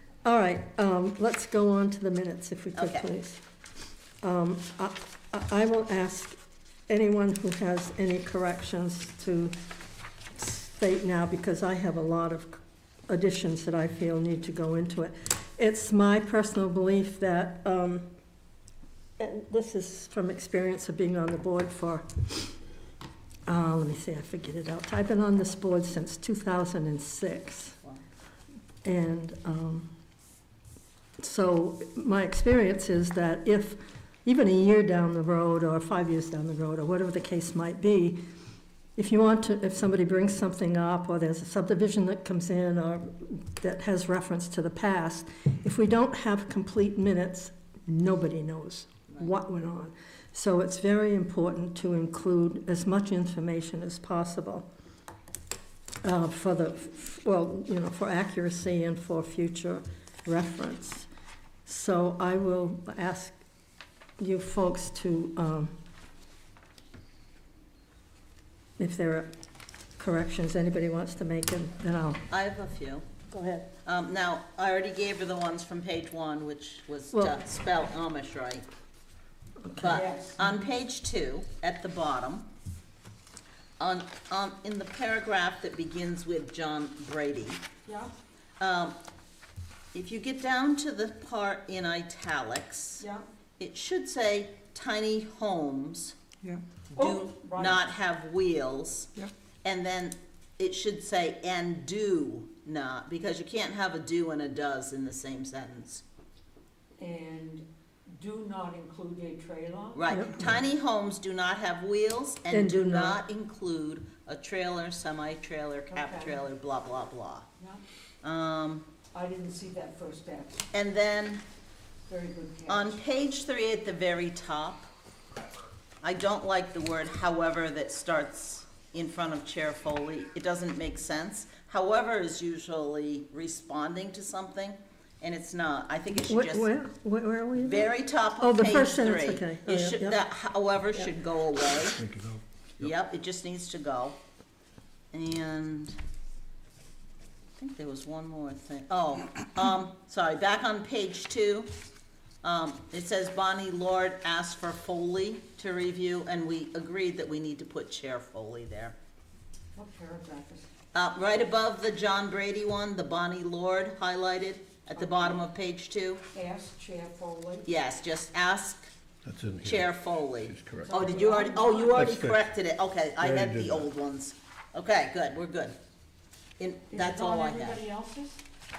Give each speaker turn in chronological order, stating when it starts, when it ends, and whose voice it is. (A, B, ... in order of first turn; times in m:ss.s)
0:00.2-0:03.4 A
0:02.7-0:03.1 B
0:04.2-0:06.4 A
0:06.9-0:09.6 A
0:10.4-0:18.1 A
0:19.2-0:22.6 A
0:23.5-0:27.8 A
0:28.8-0:29.9 A
0:31.2-0:38.2 A
0:39.0-0:54.7 A
0:56.0-1:01.1 A
1:01.6-1:03.4 A
1:04.2-1:05.7 A
1:08.8-1:09.3 A
1:10.0-1:12.2 A
1:12.3-1:13.0 B
1:13.3-1:13.7 A
1:13.8-1:18.6 B
1:17.1-1:17.4 A
1:19.7-1:22.4 B
1:19.9-1:20.5 C
1:23.8-1:27.6 B
1:27.8-1:28.1 C
1:28.6-1:29.0 B
1:29.9-1:33.0 B
1:33.0-1:33.2 C
1:33.6-1:36.2 B
1:36.9-1:37.8 C
1:36.9-1:39.1 B
1:39.6-1:46.0 B
1:47.0-1:50.2 C
1:49.9-1:57.5 B
1:50.1-1:50.4 A
1:52.5-1:53.2 A
1:55.9-1:56.4 C
1:58.2-1:58.9 B
1:59.1-2:00.7 C
2:00.7-2:01.4 B
2:02.1-2:03.0 C
2:02.7-2:04.9 B
2:06.0-2:16.7 B
2:16.2-2:20.2 A
2:17.6-2:22.0 B
2:21.9-2:22.9 D
2:22.8-2:24.2 B
2:25.1-2:26.0 B
2:27.6-2:31.7 B
2:32.4-2:39.0 B
2:39.7-2:40.7 C
2:40.9-2:46.2 B
2:44.9-2:45.4 C
2:46.3-2:47.7 C
2:47.6-2:48.9 B
2:49.2-2:51.0 D
2:49.6-2:55.8 B
2:50.8-2:52.0 C
2:51.8-2:52.5 D
2:53.2-2:53.9 D
2:56.6-2:57.8 B
2:56.9-2:58.4 C